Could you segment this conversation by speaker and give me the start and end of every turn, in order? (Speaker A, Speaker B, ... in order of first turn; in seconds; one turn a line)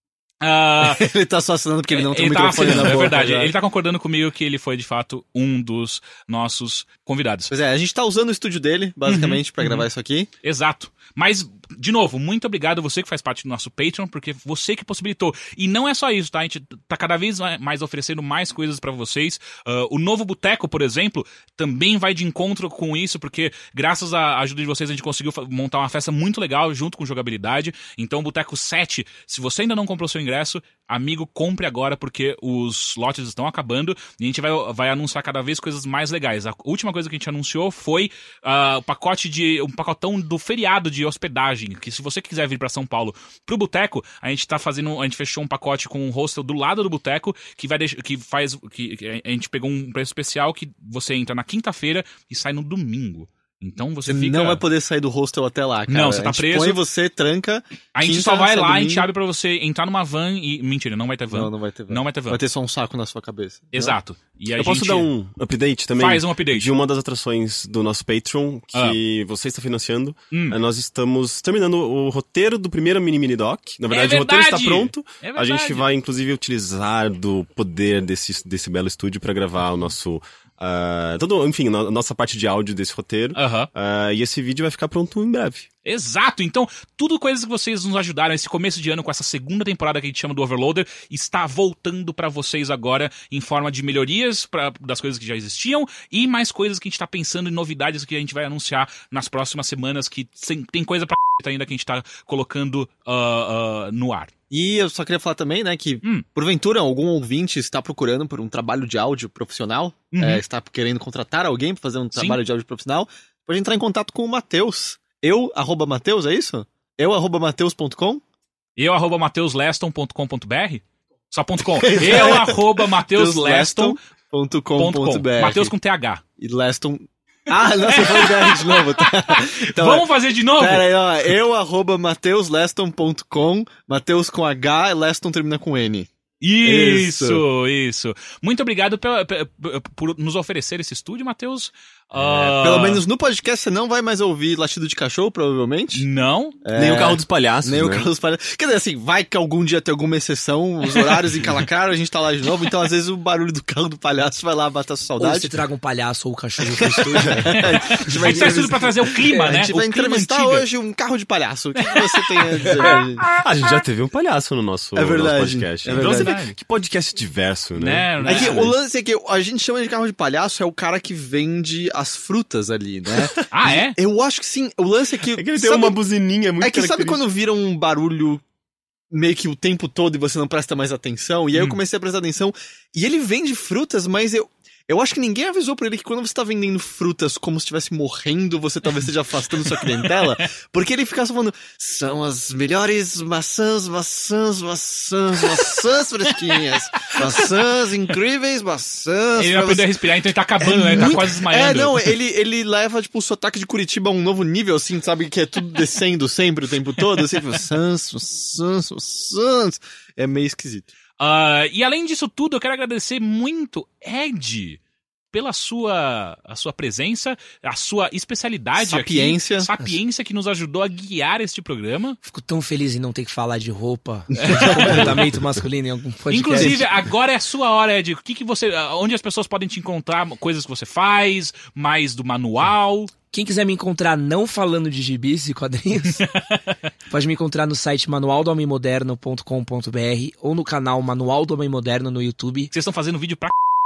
Speaker A: 0.4-1.0
Speaker B: 0.8-3.5
Speaker A: 1.9-7.5
Speaker B: 7.5-10.3
Speaker A: 9.1-9.8
Speaker A: 10.4-54.6
Speaker B: 54.1-59.0
Speaker A: 55.9-56.8
Speaker A: 57.9-62.4
Speaker B: 61.3-64.0
Speaker A: 63.7-65.1
Speaker C: 64.5-85.7
Speaker A: 66.0-66.7
Speaker A: 70.3-70.6
Speaker A: 73.9-75.8
Speaker A: 83.3-83.7
Speaker A: 85.8-104.3
Speaker B: 104.5-118.2
Speaker A: 110.1-110.4
Speaker A: 118.8-124.0
Speaker B: 121.7-125.7
Speaker A: 124.8-126.2
Speaker B: 126.4-130.1
Speaker A: 127.8-130.9
Speaker B: 130.6-136.1
Speaker A: 136.4-143.0
Speaker B: 136.6-137.4
Speaker C: 142.1-142.6
Speaker B: 142.6-146.0
Speaker A: 145.9-146.6
Speaker B: 146.6-155.6
Speaker C: 146.7-148.1
Speaker A: 151.0-151.3
Speaker D: 155.2-157.6
Speaker B: 156.6-163.2
Speaker A: 157.5-160.6
Speaker C: 158.2-158.5
Speaker D: 159.2-159.5
Speaker A: 161.8-163.4
Speaker C: 162.8-168.7
Speaker B: 164.9-166.3
Speaker A: 165.9-166.5
Speaker A: 167.8-168.7
Speaker B: 168.2-176.0
Speaker A: 173.5-173.9
Speaker C: 175.3-177.2
Speaker B: 176.6-178.4
Speaker B: 179.1-199.8
Speaker A: 181.5-181.8
Speaker A: 189.6-190.4
Speaker A: 196.6-197.6
Speaker A: 199.3-202.1
Speaker B: 200.6-210.9
Speaker A: 207.0-207.4
Speaker A: 211.2-214.8
Speaker A: 215.3-222.2
Speaker B: 218.8-219.7
Speaker D: 222.2-226.8
Speaker B: 224.3-225.1
Speaker A: 224.4-225.1
Speaker A: 226.3-233.1
Speaker B: 226.6-226.8
Speaker D: 233.3-236.2
Speaker A: 236.2-236.7
Speaker D: 237.1-242.7
Speaker A: 242.7-243.5